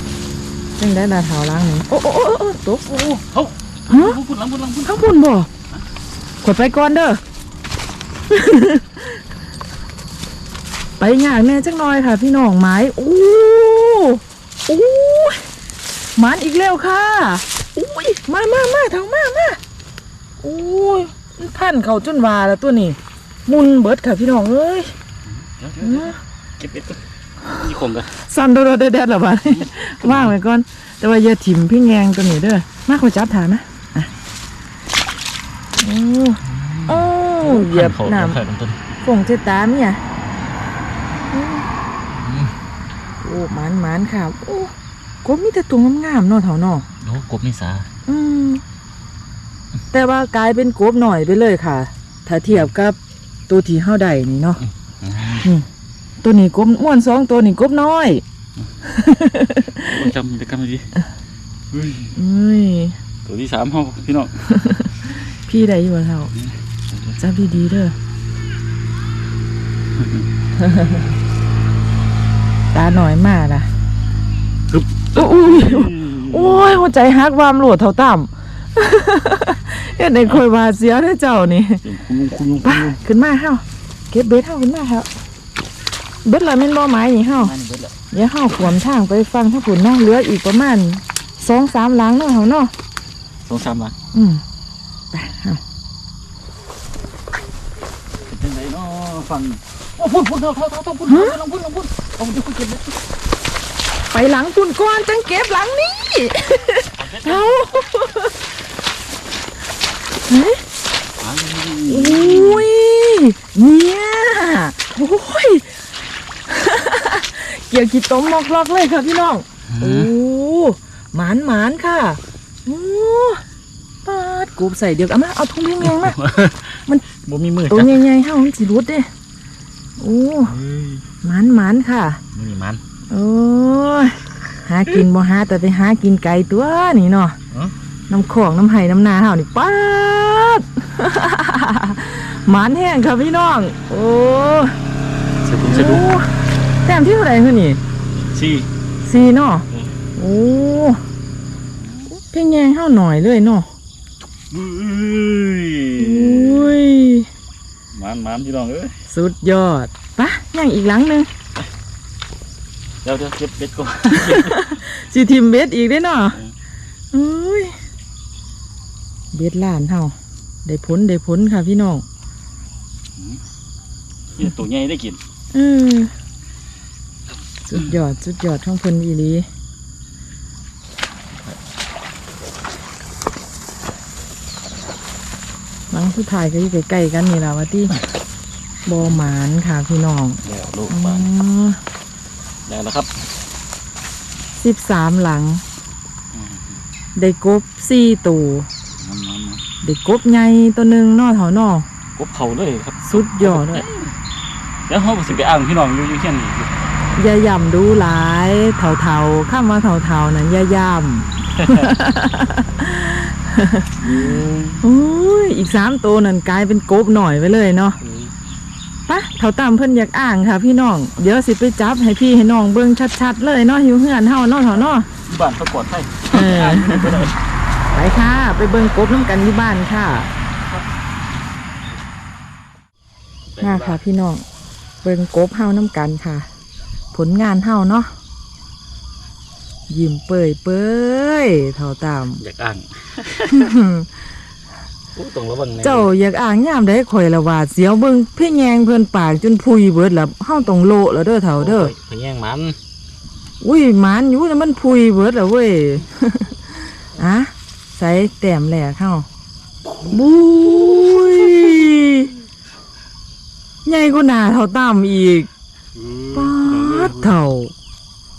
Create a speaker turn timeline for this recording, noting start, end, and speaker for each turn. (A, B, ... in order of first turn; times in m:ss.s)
0:00.8-0:03.1 A
0:02.9-0:05.0 B
0:03.9-0:04.2 A
0:04.8-0:05.5 A
0:06.4-0:07.2 A
0:08.3-0:09.2 A
0:11.0-0:15.4 A
0:16.2-0:19.6 A
0:20.4-0:24.9 A
0:25.3-0:28.1 B
0:25.8-0:26.2 A
0:28.1-0:34.1 A
0:29.4-0:30.4 B
0:35.8-0:38.4 A
0:36.4-0:38.8 B
0:39.0-0:40.0 A
0:41.3-0:41.7 A
0:42.1-0:42.5 B
0:43.2-0:44.7 A
0:45.2-0:46.9 A
0:47.0-0:47.9 B
0:48.1-0:48.6 A
0:49.9-0:53.0 A
0:53.5-0:54.6 A
0:55.0-0:55.5 B
0:56.2-0:58.2 A
0:58.8-1:00.0 A
0:59.7-1:00.9 B
1:01.7-1:02.2 B
1:02.2-1:03.0 A
1:03.2-1:04.4 B
1:04.5-1:06.3 A
1:06.4-1:07.2 B
1:07.2-1:08.0 A
1:10.0-1:10.3 B
1:10.6-1:11.0 A
1:12.7-1:13.7 A
1:14.7-1:16.8 B
1:15.1-1:21.8 A
1:21.8-1:23.0 B
1:22.6-1:25.1 A
1:26.2-1:27.5 A
1:27.4-1:28.0 B
1:28.1-1:32.7 A
1:33.5-1:34.0 B
1:34.1-1:34.4 A
1:35.1-1:35.6 A
1:38.2-1:43.0 B
1:41.1-1:41.4 A
1:44.1-1:48.4 A
1:47.0-1:47.7 B
1:50.3-1:50.6 A
1:51.2-1:52.7 B
1:51.9-1:55.8 A
1:56.5-2:03.4 A
1:59.7-2:00.1 B
2:04.1-2:06.2 A
2:05.8-2:08.0 B
2:07.7-2:09.1 A
2:10.0-2:10.6 A
2:10.5-2:11.0 B
2:11.2-2:12.2 A
2:12.4-2:12.8 B
2:13.1-2:17.4 A
2:18.1-2:24.8 A
2:25.4-2:26.1 B
2:25.6-2:27.8 A
2:28.2-2:28.7 B
2:29.0-2:29.6 A
2:30.2-2:31.0 A
2:31.8-2:32.1 B
2:32.1-2:33.7 A
2:34.5-2:36.8 B
2:36.0-2:37.3 A
2:37.9-2:39.0 B
2:39.1-2:41.3 A
2:43.0-2:44.8 B
2:44.1-2:46.4 A
2:47.1-2:47.8 A
2:49.3-2:52.0 A
2:54.3-2:55.2 B
2:55.5-2:56.1 A
2:57.7-2:59.5 A
3:05.9-3:08.0 A
3:08.9-3:11.8 A
3:10.4-3:11.3 B
3:12.7-3:13.1 B
3:14.6-3:15.6 A
3:16.3-3:16.8 B
3:17.2-3:18.7 A
3:19.0-3:19.6 B
3:19.8-3:21.9 A
3:22.2-3:24.1 B
3:23.1-3:23.9 A
3:24.9-3:26.7 B
3:27.1-3:34.3 A
3:31.5-3:32.0 B
3:34.0-3:34.8 B
3:34.8-3:38.0 A
3:38.0-3:38.3 B
3:39.1-3:45.1 A
3:45.3-3:47.4 B
3:46.3-3:47.3 A
3:47.9-3:50.3 A
3:50.6-3:50.9 B
3:53.6-3:54.0 B
3:53.6-3:54.4 A
3:55.0-3:56.5 A
3:57.1-3:58.1 A
3:59.9-4:02.4 A
4:02.4-4:03.7 B
4:03.5-4:04.1 A
4:05.2-4:06.1 B
4:05.8-4:11.9 A
4:11.6-4:12.8 B
4:13.6-4:19.3 A
4:19.8-4:21.7 B
4:20.1-4:22.3 A
4:23.9-4:25.5 A
4:26.0-4:27.3 B
4:26.3-4:27.7 A